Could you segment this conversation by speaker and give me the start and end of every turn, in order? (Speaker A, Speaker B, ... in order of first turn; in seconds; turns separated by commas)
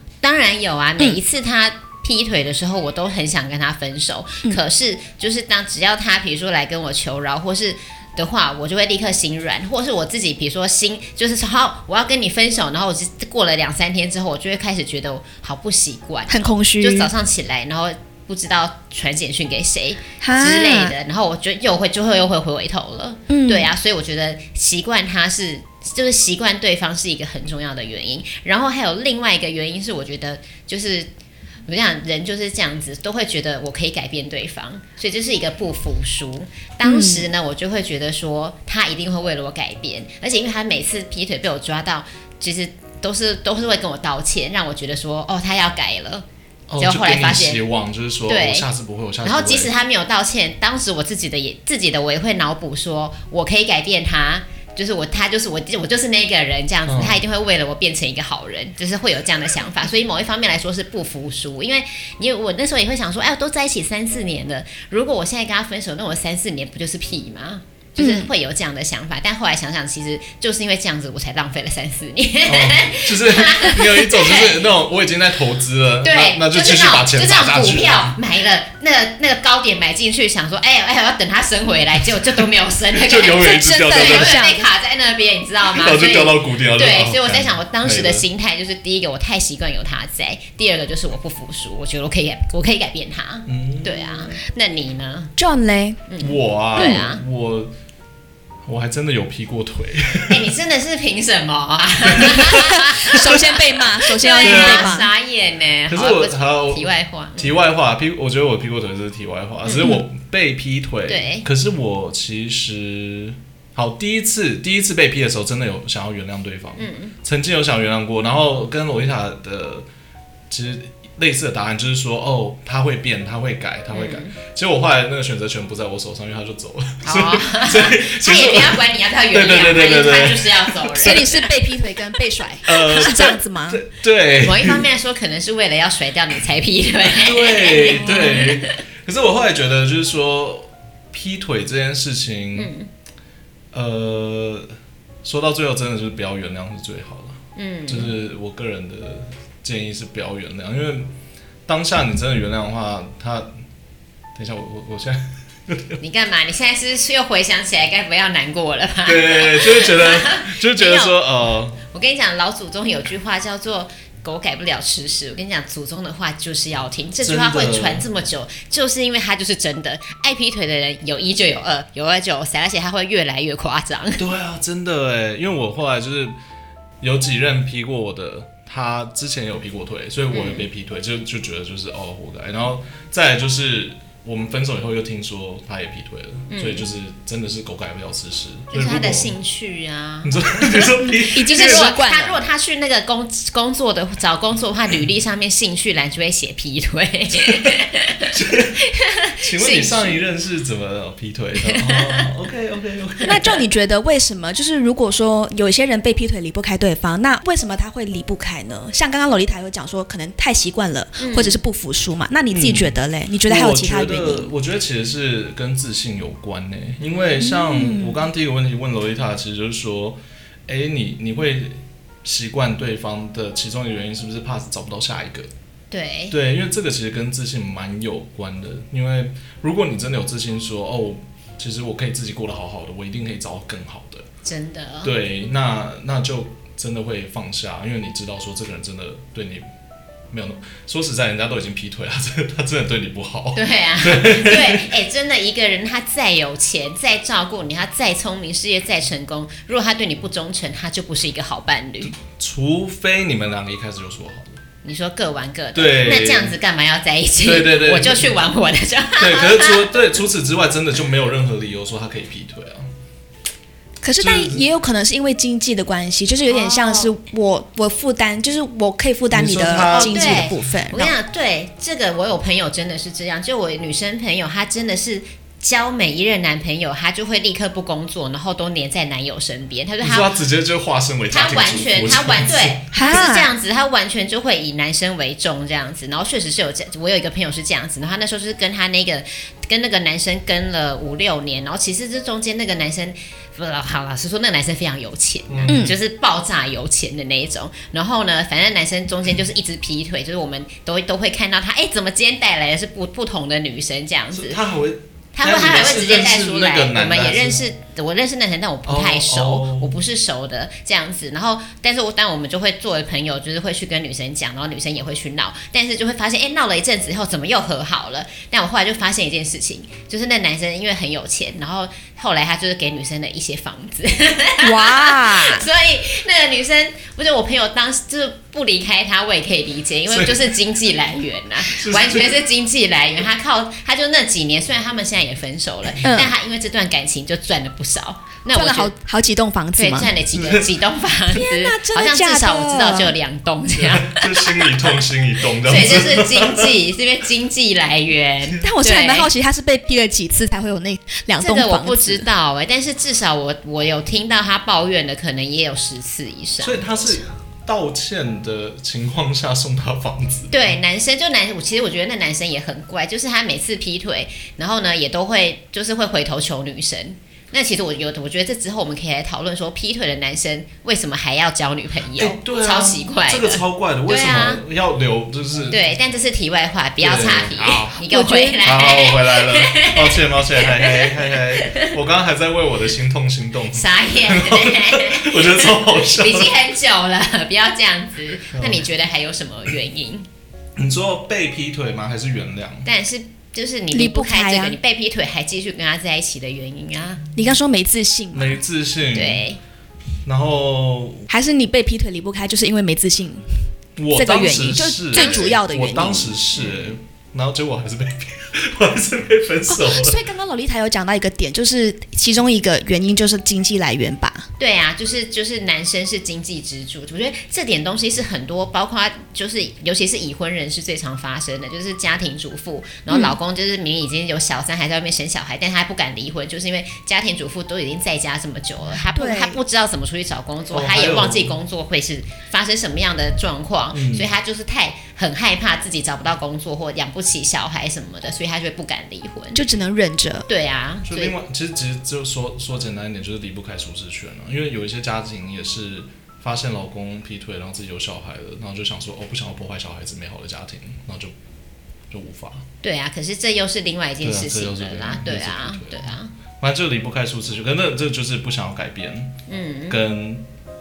Speaker A: 0.2-31.1, Speaker B: 16.3-17.1, Speaker B: 20.2-20.9, Speaker B: 23.3-23.7, Speaker A: 31.7-46.2, Speaker B: 36.8-37.3, Speaker C: 46.7-49.7, Speaker A: 46.8-47.6, Speaker A: 48.3-48.7, Speaker A: 49.2-74.6, Speaker C: 56.9-57.2, Speaker B: 68.0-68.3, Speaker C: 72.4-78.2, Speaker A: 76.0-95.3, Speaker C: 82.9-84.5, Speaker B: 83.4-84.6, Speaker C: 85.7-88.2, Speaker C: 93.5-94.2, Speaker B: 95.4-96.0, Speaker A: 96.1-97.2, Speaker C: 96.2-97.7, Speaker C: 98.7-100.5, Speaker A: 100.3-103.6, Speaker C: 102.1-102.8, Speaker B: 102.7-105.1, Speaker A: 104.2-107.5, Speaker C: 104.4-105.1, Speaker C: 105.9-119.9, Speaker A: 109.7-110.0, Speaker A: 111.1-111.5, Speaker A: 116.8-117.2, Speaker C: 120.5-131.5, Speaker A: 123.9-124.3, Speaker A: 127.0-131.4, Speaker B: 131.0-133.8, Speaker C: 132.7-134.9, Speaker A: 134.4-138.8, Speaker C: 137.2-142.7, Speaker A: 142.6-142.9, Speaker C: 143.7-144.7, Speaker C: 145.2-151.1, Speaker A: 147.5-148.2, Speaker C: 151.7-153.5, Speaker C: 154.3-156.0, Speaker A: 156.0-161.2, Speaker C: 159.0-161.8, Speaker A: 161.9-174.2, Speaker C: 167.2-168.0, Speaker C: 174.2-176.3, Speaker C: 177.0-189.3, Speaker A: 180.3-180.7, Speaker A: 186.5-186.9, Speaker A: 188.7-190.3, Speaker C: 190.2-191.9, Speaker B: 191.0-192.4, Speaker A: 191.4-200.2, Speaker C: 198.3-198.8, Speaker C: 199.4-203.6, Speaker A: 201.6-202.3, Speaker B: 203.3-214.5, Speaker A: 211.2-211.6, Speaker C: 212.5-225.5, Speaker B: 217.4-218.2, Speaker A: 225.9-226.3, Speaker C: 226.3-234.3, Speaker A: 234.4-235.1, Speaker C: 235.0-239.7, Speaker C: 240.3-244.8, Speaker A: 243.5-252.1, Speaker C: 252.0-254.6, Speaker A: 254.8-259.9, Speaker C: 255.8-256.6, Speaker C: 257.4-258.4, Speaker C: 259.2-262.9, Speaker B: 264.0-271.1, Speaker C: 264.2-264.6, Speaker A: 266.5-267.1, Speaker C: 269.3-270.5, Speaker A: 269.9-280.4, Speaker C: 280.0-282.8, Speaker A: 281.3-304.6, Speaker B: 282.9-283.5, Speaker C: 295.5-295.9, Speaker B: 295.7-295.9, Speaker C: 304.3-307.6, Speaker A: 305.4-338.9, Speaker C: 308.9-309.9, Speaker B: 324.6-325.7, Speaker C: 330.1-330.4, Speaker C: 331.7-332.4, Speaker B: 336.0-336.3, Speaker B: 338.5-340.1, Speaker A: 339.8-344.7, Speaker C: 340.3-340.7, Speaker B: 341.3-343.1, Speaker C: 343.7-346.7, Speaker A: 345.6-349.3, Speaker B: 348.6-352.2, Speaker A: 351.4-357.2, Speaker C: 356.6-360.7, Speaker A: 360.5-374.6, Speaker C: 372.1-375.8, Speaker A: 375.7-381.9, Speaker C: 377.0-378.0, Speaker B: 378.1-378.9, Speaker C: 378.6-386.6, Speaker A: 383.7-390.2, Speaker C: 388.5-388.9, Speaker C: 390.8-392.9, Speaker A: 392.8-397.2, Speaker B: 393.9-394.8, Speaker B: 397.4-398.6, Speaker C: 398.3-399.4, Speaker A: 399.1-399.6, Speaker C: 400.2-401.3, Speaker B: 401.3-403.4, Speaker C: 404.0-410.2, Speaker B: 404.1-406.4, Speaker A: 405.1-405.6, Speaker A: 406.6-406.9, Speaker B: 409.7-414.4, Speaker A: 414.6-439.6, Speaker B: 423.1-423.4, Speaker B: 429.1-429.6, Speaker C: 430.7-431.5, Speaker C: 433.9-434.3, Speaker B: 439.5-440.5, Speaker A: 440.5-441.4, Speaker C: 441.1-451.3, Speaker C: 452.1-452.6, Speaker A: 452.8-456.3, Speaker C: 454.2-459.3, Speaker A: 459.5-460.0, Speaker C: 459.9-460.4